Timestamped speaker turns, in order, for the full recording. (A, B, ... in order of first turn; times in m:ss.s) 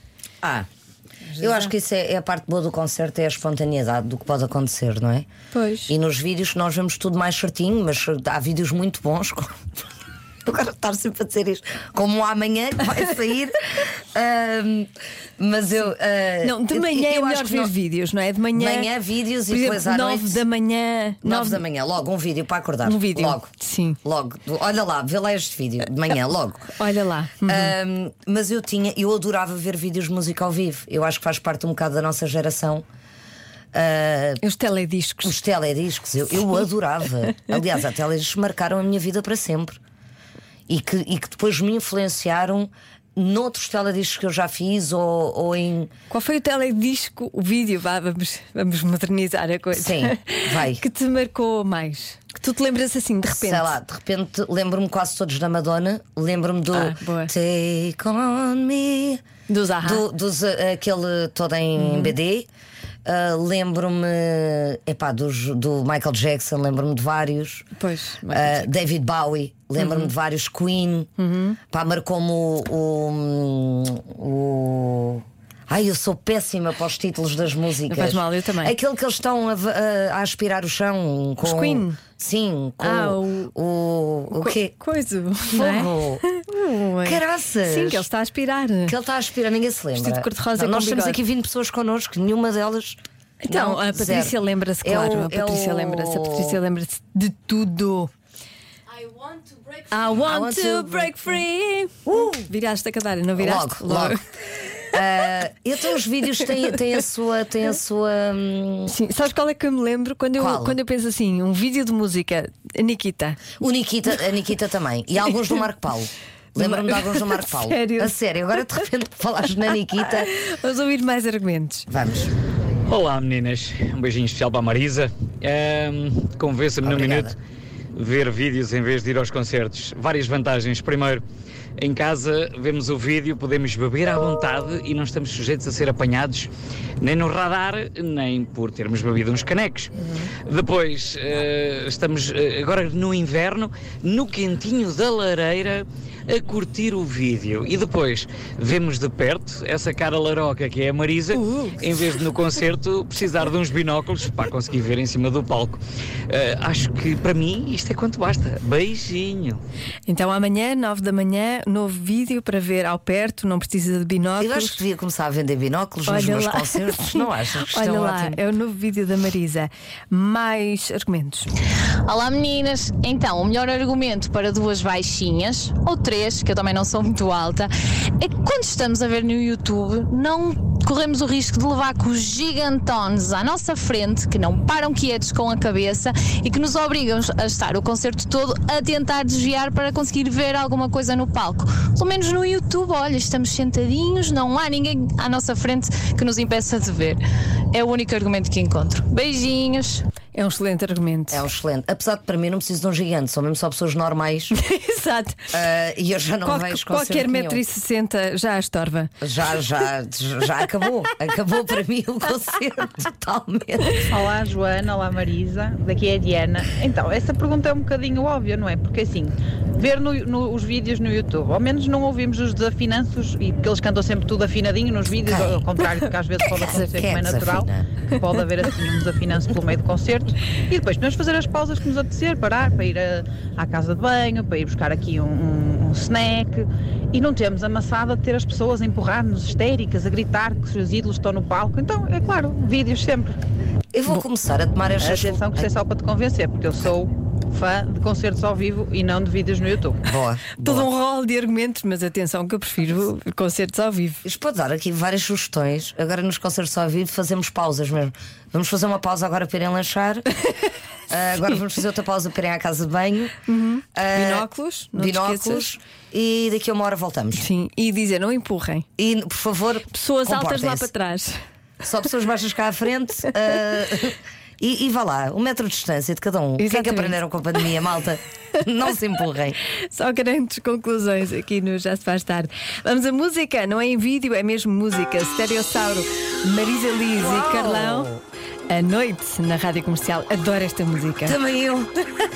0:00.4-0:00.7 A
0:01.3-0:01.7 B
0:01.4-0:05.3 A
0:05.5-0:05.9 B
0:05.9-0:09.5 A
0:10.4-0:17.7 A
0:16.4-0:18.9 B
0:18.5-0:20.4 A
0:19.5-0:21.6 B
0:21.2-0:23.5 A
0:22.8-0:24.0 B
0:24.0-0:26.7 A
0:26.7-0:27.7 B
0:27.4-0:32.8 A
0:33.7-0:34.4 A
0:34.4-0:35.4 B
0:35.2-0:39.8 A
0:40.7-0:45.9 A
0:46.1-0:53.8 B
0:49.7-0:50.8 A
0:53.3-0:59.2 A
0:56.7-0:57.3 B
0:59.5-1:00.0 B
0:59.8-1:02.5 A
1:01.8-1:02.2 B
1:03.0-1:07.7 A
1:07.8-1:08.7 B
1:08.3-1:11.1 A
1:09.8-1:10.1 B
1:11.2-1:11.6 B
1:11.7-1:24.7 A
1:17.9-1:18.8 B
1:21.4-1:22.0 B
1:22.8-1:23.5 B
1:24.3-1:29.0 B
1:25.5-1:26.2 A
1:27.0-1:28.1 A
1:28.9-1:36.6 A
1:30.0-1:31.2 B
1:33.4-1:38.1 B
1:39.9-1:44.2 B
1:40.2-1:41.2 A
1:42.1-1:42.5 A
1:43.4-1:44.2 A
1:44.9-1:49.0 A
1:48.9-1:53.4 B
1:50.4-1:50.8 A
1:53.6-2:00.3 A
1:56.6-1:58.1 B
2:00.1-2:01.9 B
2:01.9-2:02.3 A
2:02.9-2:07.3 C
2:06.8-2:07.4 A
2:08.0-2:11.2 C
2:11.8-2:16.5 C
2:17.0-2:19.9 C
2:20.5-2:35.8 C
2:31.3-2:31.8 B
2:36.3-2:39.6 C
2:40.1-2:44.8 B
2:44.4-2:48.4 A
2:46.1-2:51.5 B
2:52.1-3:17.2 D
3:17.7-3:20.1 D
3:20.3-3:21.4 B
3:21.3-3:24.6 A
3:24.5-3:25.5 B
3:25.5-3:27.6 A
3:26.4-3:29.1 B
3:29.2-3:34.0 A
3:34.1-4:03.4 E
3:45.3-3:45.6 A
3:46.6-3:47.9 A
4:03.9-4:05.7 A
4:05.0-4:10.0 E
4:10.1-4:10.9 A
4:10.6-4:14.2 B
4:14.2-4:20.3 A
4:21.1-4:23.3 A
4:23.5-4:25.7 B
4:24.0-4:27.5 A
4:27.4-4:28.9 B
4:29.0-4:30.9 A
4:29.9-4:31.4 B
4:31.8-4:39.6 A
4:36.6-4:37.2 B
4:39.9-4:48.1 B
4:47.2-4:48.2 A
4:48.7-4:51.4 B
4:51.3-4:51.9 A